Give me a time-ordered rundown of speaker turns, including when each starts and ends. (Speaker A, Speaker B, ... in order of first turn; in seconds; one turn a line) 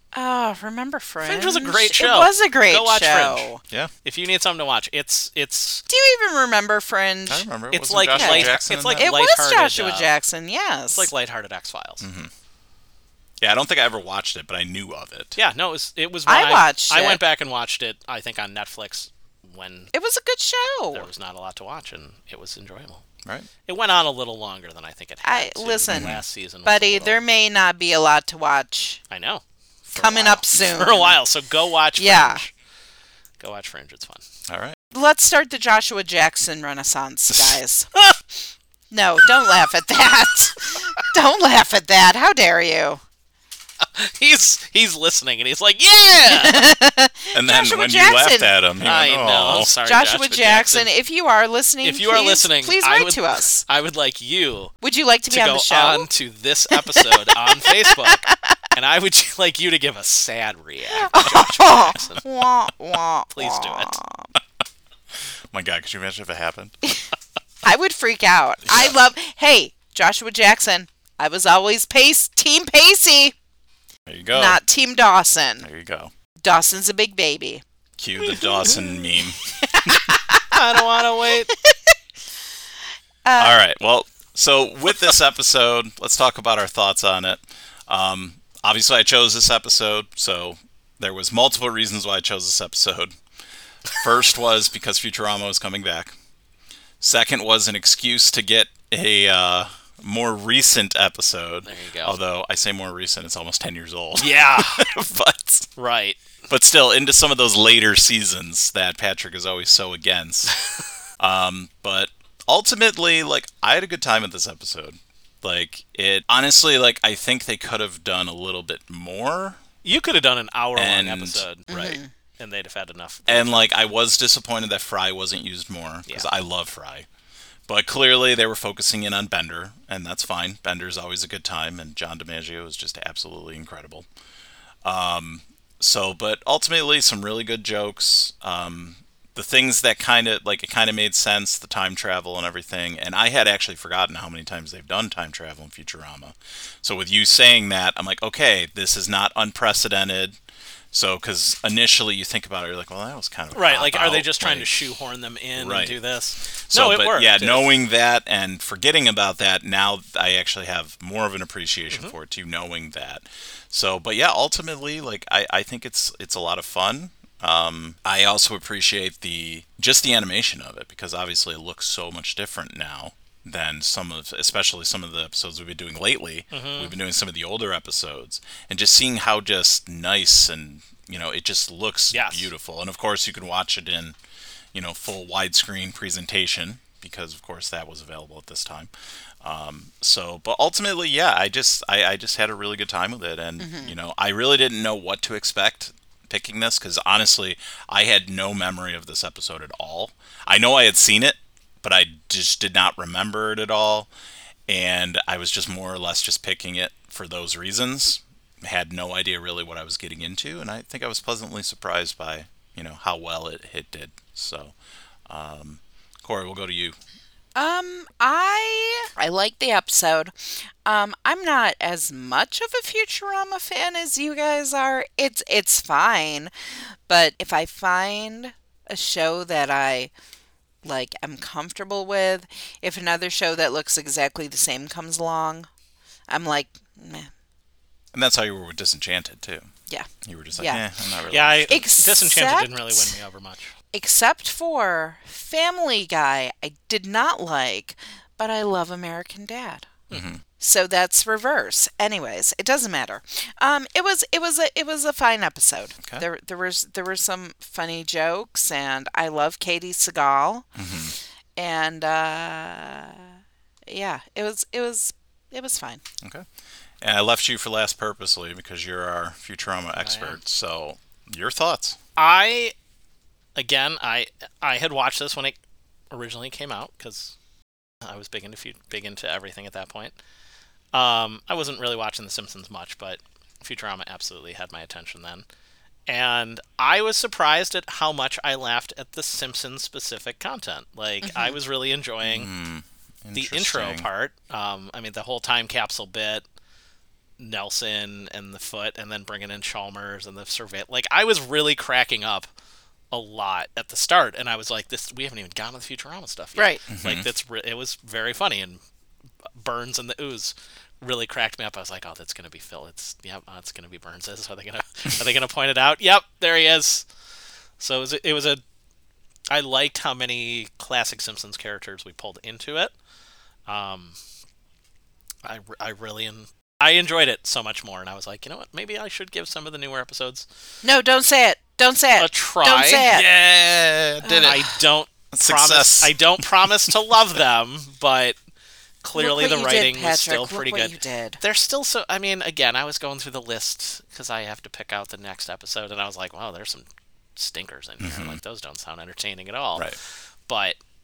Speaker A: 0.1-3.6
Speaker B: 1.2-3.5
Speaker B: 4.0-5.8
Speaker A: 5.9-7.4
Speaker C: 7.3-9.1
Speaker B: 7.7-10.1
Speaker A: 8.1-11.1
Speaker B: 10.9-12.0
Speaker C: 12.0-12.3
Speaker C: 13.4-15.4
Speaker B: 15.4-19.9
Speaker A: 16.3-17.2
Speaker A: 19.9-21.1
Speaker B: 20.9-23.0
Speaker B: 23.6-27.2
Speaker A: 25.2-29.0
Speaker C: 25.9-26.2
Speaker B: 29.1-32.5
Speaker A: 29.9-31.2
Speaker A: 32.0-32.4
Speaker B: 33.4-34.2
Speaker C: 34.5-34.8
Speaker A: 34.9-38.2
Speaker A: 38.9-43.0
Speaker B: 43.8-46.8
Speaker A: 46.2-48.5
Speaker C: 47.3-49.7
Speaker B: 48.8-50.9
Speaker A: 49.5-53.6
Speaker B: 51.8-54.8
Speaker A: 54.8-56.1
Speaker B: 55.3-62.2
Speaker A: 56.8-58.5
Speaker A: 60.9-64.3
Speaker B: 63.3-64.0
Speaker C: 65.5-66.7
Speaker A: 67.6-73.3
Speaker C: 68.7-68.9
Speaker C: 74.0-74.6
Speaker A: 74.3-75.7
Speaker C: 75.6-76.1
Speaker A: 76.4-77.6
Speaker C: 78.0-79.4
Speaker A: 78.2-81.9
Speaker B: 80.5-81.5
Speaker A: 83.2-83.6
Speaker C: 83.4-93.2
Speaker C: 93.9-96.1
Speaker C: 97.0-105.7
Speaker B: 101.6-102.2
Speaker B: 104.2-104.9
Speaker B: 105.8-106.4
Speaker C: 106.5-110.5
Speaker C: 111.2-119.6
Speaker B: 119.8-123.7
Speaker C: 120.8-121.4
Speaker A: 121.7-122.1
Speaker C: 123.3-127.1
Speaker C: 127.7-134.1
Speaker C: 134.8-150.4
Speaker C: 150.9-154.7
Speaker B: 153.5-157.7
Speaker C: 155.6-156.0
Speaker C: 156.7-184.2
Speaker B: 176.5-176.9
Speaker B: 182.1-182.5
Speaker C: 184.7-188.9
Speaker C: 189.4-204.1
Speaker A: 193.6-193.9
Speaker C: 204.7-214.7
Speaker C: 215.3-216.9
Speaker A: 217.6-226.5
Speaker A: 227.1-230.1
Speaker A: 230.8-235.7
Speaker A: 236.3-237.3
Speaker C: 238.1-239.7
Speaker A: 239.9-240.8
Speaker C: 240.2-241.8
Speaker B: 241.3-243.7
Speaker A: 241.7-243.1
Speaker A: 243.9-249.9
Speaker C: 250.1-250.4
Speaker A: 250.6-260.7
Speaker C: 260.7-261.1
Speaker A: 261.6-263.3
Speaker A: 263.9-266.0
Speaker C: 266.2-266.5
Speaker C: 267.0-272.0
Speaker B: 270.0-270.4
Speaker B: 272.2-272.7
Speaker B: 273.6-275.6
Speaker B: 276.1-277.3
Speaker B: 278.0-280.1
Speaker B: 280.9-285.4
Speaker B: 286.1-292.5
Speaker A: 291.2-291.6
Speaker C: 292.2-294.1
Speaker B: 293.3-296.4
Speaker B: 297.4-302.5
Speaker B: 303.1-308.8
Speaker A: 306.6-306.8
Speaker C: 306.9-307.3
Speaker B: 309.6-317.0
Speaker B: 317.8-318.6
Speaker B: 319.5-322.9
Speaker B: 323.7-324.1
Speaker B: 325.4-330.4
Speaker A: 330.8-333.3
Speaker B: 332.2-333.5
Speaker C: 333.1-334.7
Speaker A: 334.2-334.5
Speaker B: 334.4-338.4
Speaker C: 335.3-336.4
Speaker B: 339.0-349.9
Speaker A: 339.1-341.4
Speaker C: 348.0-348.4
Speaker B: 350.5-350.8